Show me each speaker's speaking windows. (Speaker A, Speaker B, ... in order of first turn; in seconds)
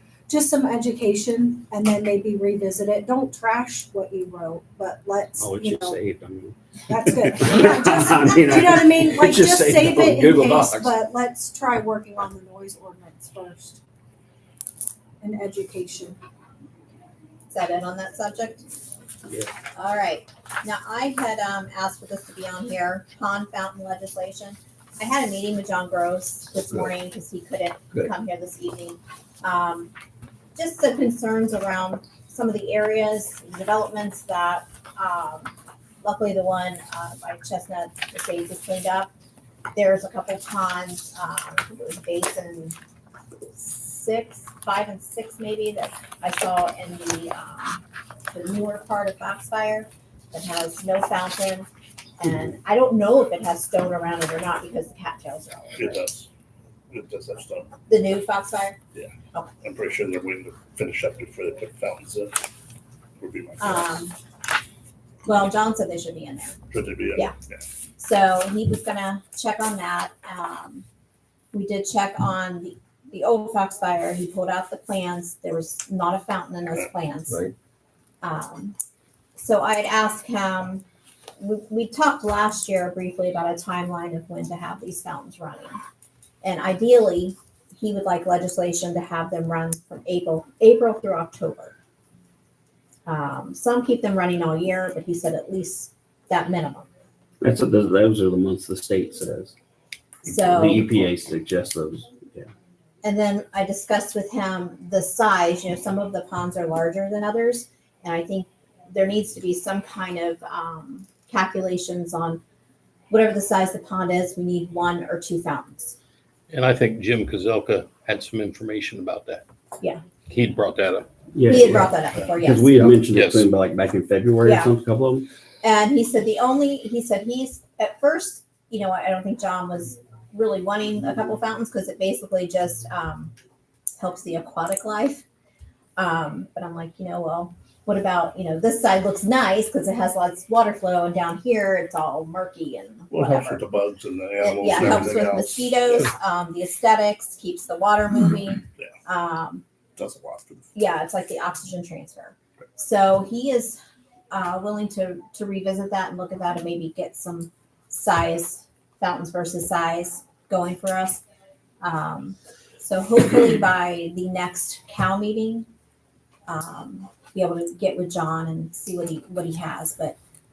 Speaker A: 0.3-6.0, 6.9-13.8, 15.2-16.2
Speaker B: 5.4-10.9, 97.4-99.5, 100.3-102.5, 121.3-125.3
Speaker C: 17.5-18.6, 19.8-29.9, 30.6-35.5, 36.0-39.1, 39.8-42.8, 43.5-51.7, 52.2-56.0, 57.9-58.8, 63.6-64.2, 65.2-66.6, 68.0-70.8, 71.5-77.5, 78.2-78.8, 79.4-80.8, 81.4-85.8, 86.4-91.8, 93.1-96.9, 100.2-100.9, 103.0-112.4, 113.1-116.0, 121.5-122.9, 124.4-124.7, 125.6-133.3, 134.0-135.2, 136.0-143.7, 144.4-149.6, 150.8-161.2, 161.8-165.7, 166.5-170.2
Speaker D: 55.8-56.3, 56.9-57.7, 59.0-62.4, 63.2-64.0, 66.7-67.6, 143.1-146.1, 150.0-150.7
Speaker E: 116.5-119.5, 120.3-121.1, 123.1-123.5